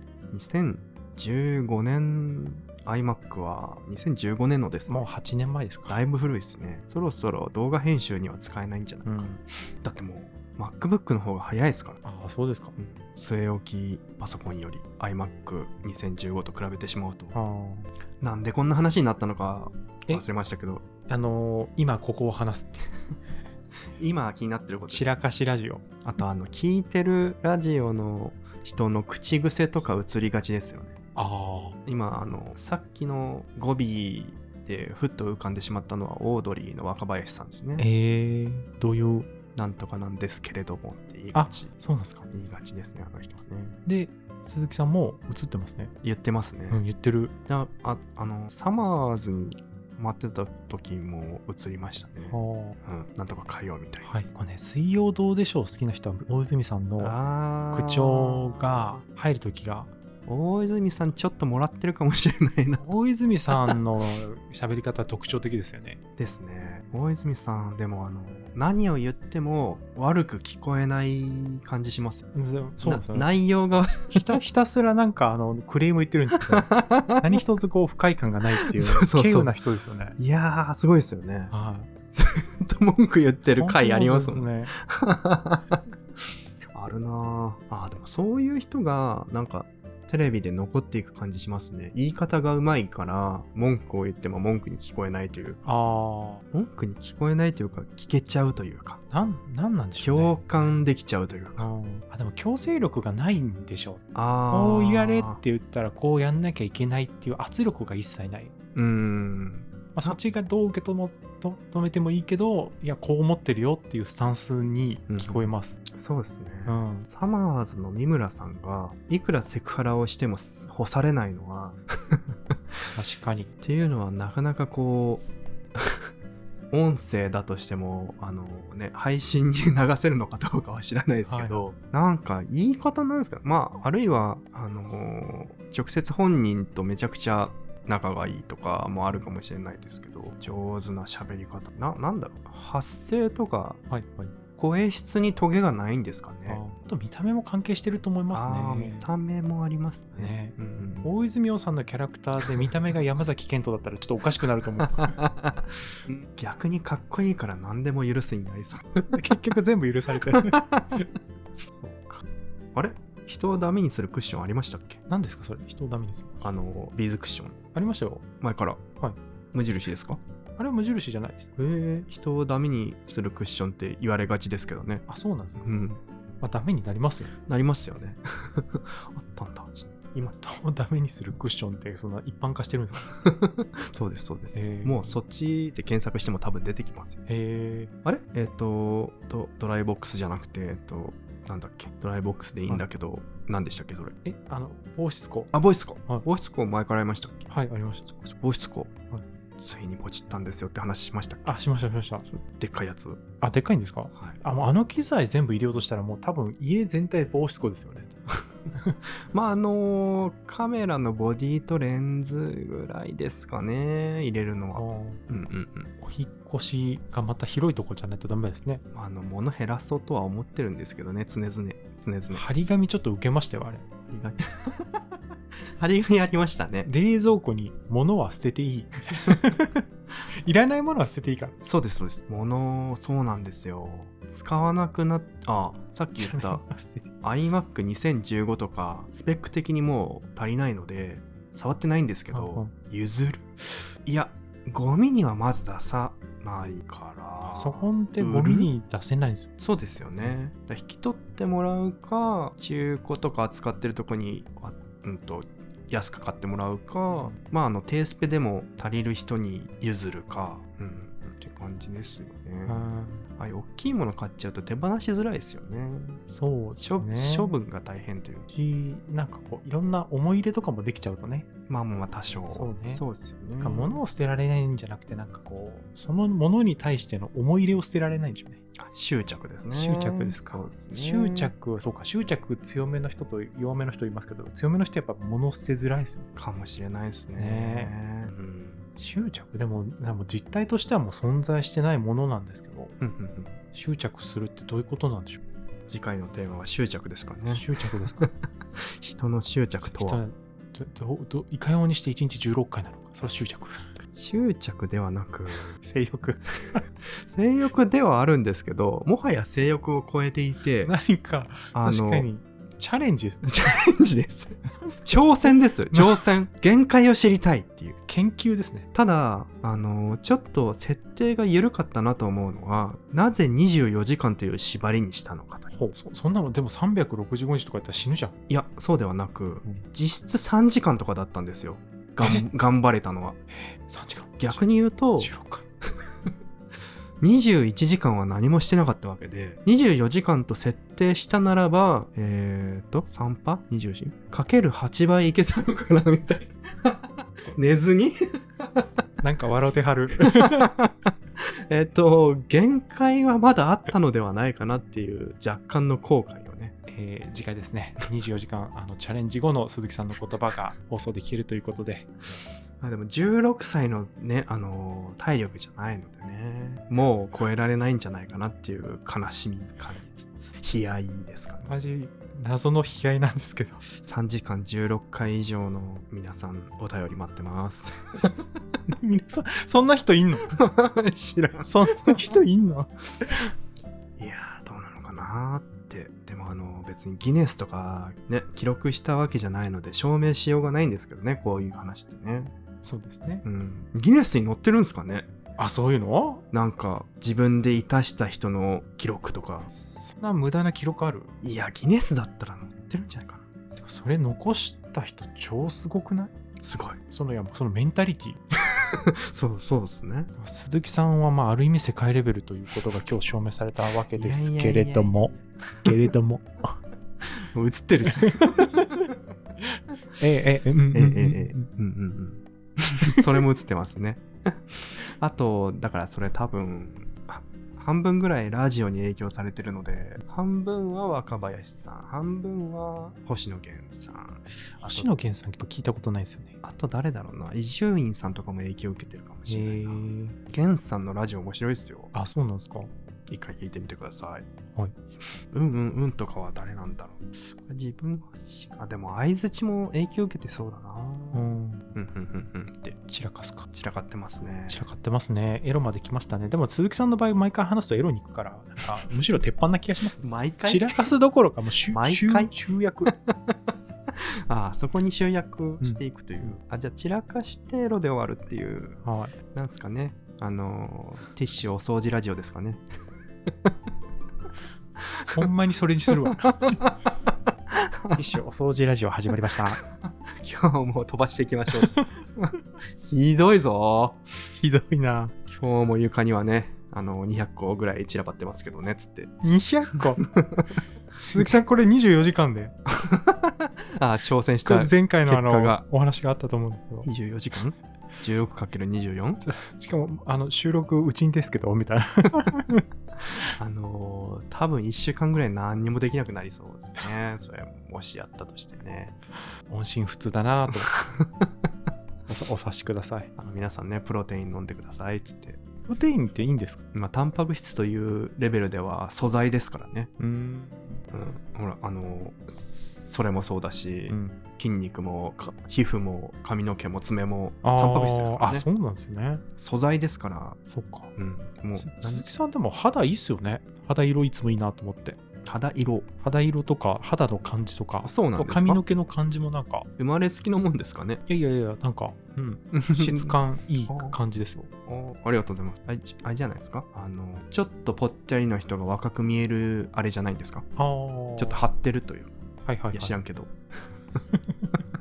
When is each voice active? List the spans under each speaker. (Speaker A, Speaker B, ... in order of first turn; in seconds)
Speaker A: 0.3-5.0, 5.9-12.0, 12.8-17.4, 18.2-20.9, 24.0-25.1, 26.0-31.0, 31.9-37.9, 39.6-41.7, 42.3-43.8, 46.0-46.8, 47.5-54.1, 57.0-58.8, 60.3-62.9, 63.5-63.8, 66.2-72.2, 72.8-74.4, 76.4-77.4, 78.6-79.6, 80.2-81.5, 82.1-85.8, 86.7-95.6, 96.5-99.0, 100.0-101.7, 104.2-105.4, 108.8-110.2, 115.1-122.6, 123.6-126.1, 126.7-143.8, 144.6-146.6, 148.3-151.1, 154.9-159.2, 160.2-161.0, 161.8-162.2, 162.8-165.0, 166.4-167.6, 168.4-168.8, 169.5-170.2, 171.6-175.0, 175.6-176.0, 177.4-180.4, 183.1-187.2, 188.1-194.2, 195.5-197.5, 198.1-199.0, 199.6-201.6, 202.3-203.2, 209.3-215.9, 218.9-222.4, 224.1-225.0, 225.8-226.9, 231.6-236.6, 237.2-248.7, 249.6-266.2, 266.8-268.5, 271.7-274.0, 278.8-281.5, 286.4-288.8, 293.0-293.6, 295.9-300.2, 304.1-305.7, 307.3-310.9, 311.7-312.3, 313.4-318.0, 318.9-325.8, 328.5-333.4, 334.4-335.3, 337.2-348.9, 350.2-356.8, 362.8-371.7, 374.0-378.4, 380.5-382.3, 384.2-392.5, 393.4-395.3, 396.5-399.7, 401.4-403.4, 406.6-407.0, 408.5-410.3, 414.1-416.0, 417.2-419.1, 420.9-435.1, 436.6-442.1, 443.3-444.5, 445.5-453.0, 453.7-454.9, 460.2-461.1, 461.9-462.5, 463.1-472.8, 473.5-473.7, 475.0-475.5, 476.1-478.2, 480.1-484.2, 485.5-489.4, 490.0-490.7, 492.9-495.8, 497.1-499.4, 503.6-509.1, 510.9-511.5, 513.4-515.6, 516.9-520.1, 521.1-528.7, 529.6-530.6, 531.2-532.2, 535.5-536.1, 538.0-538.8, 540.0-541.2, 542.7-543.4, 543.9-544.2, 544.9-550.7, 551.4-552.3, 552.9-553.5
Speaker B: 4.9-6.0, 9.1-9.3, 12.0-12.8, 17.3-17.9, 21.1-22.9, 24.9-25.8, 31.2-31.8, 37.8-39.3, 41.3-42.3, 43.9-45.9, 46.7-47.4, 52.3-52.8, 54.0-57.1, 57.7-59.9, 62.8-66.0, 72.3-73.3, 74.1-80.2, 81.5-81.9, 83.6-84.7, 95.7-96.4, 99.1-100.7, 101.6-108.5, 109.9-115.8, 116.7-117.1, 122.9-123.5, 131.3-131.7, 143.9-144.3, 146.5-149.1, 150.2-155.2, 159.1-160.7, 165.1-166.4, 167.7-168.2, 170.6-171.5, 175.1-175.7, 176.4-177.3, 180.4-183.1, 184.6-185.2, 187.3-187.9, 194.2-195.5, 197.5-198.1, 201.5-202.2, 203.4-209.0, 214.8-215.2, 216.0-218.8, 222.3-223.9, 226.9-229.8, 230.4-231.6, 236.2-237.1, 242.3-242.7, 247.5-249.5, 257.1-257.4, 262.7-263.3, 266.3-267.6, 268.5-271.5, 272.5-273.0, 273.6-278.6, 279.7-286.3, 287.4-287.9, 289.0-292.9, 293.7-295.4, 297.5-298.3, 299.8-303.8, 305.8-306.8, 310.8-313.5, 318.1-318.9, 325.7-328.4, 333.5-334.6, 335.2-335.6, 349.2-350.7, 356.9-362.1, 371.6-373.9, 378.9-380.6, 381.6-383.5, 392.8-393.4, 395.6-396.4, 399.7-401.3, 403.8-406.3, 407.1-408.4, 410.4-416.8, 418.1-419.1, 420.2-421.7, 434.8-436.6, 439.5-440.4, 442.1-442.9, 451.3-451.8, 453.1-453.7, 454.7-463.1, 469.0-469.3, 475.3-476.8, 478.1-479.8, 481.8-482.1, 484.6-485.3, 489.4-490.3, 491.2-492.8, 494.6-497.1, 499.4-502.9, 509.7-510.9, 512.3-513.3, 515.9-516.8, 520.2-521.0, 524.1-524.4, 527.6-529.4, 530.7-531.1, 531.8-535.2, 536.2-539.9, 541.3-544.7, 550.8-551.6, 552.7-553.2, 554.3-554.8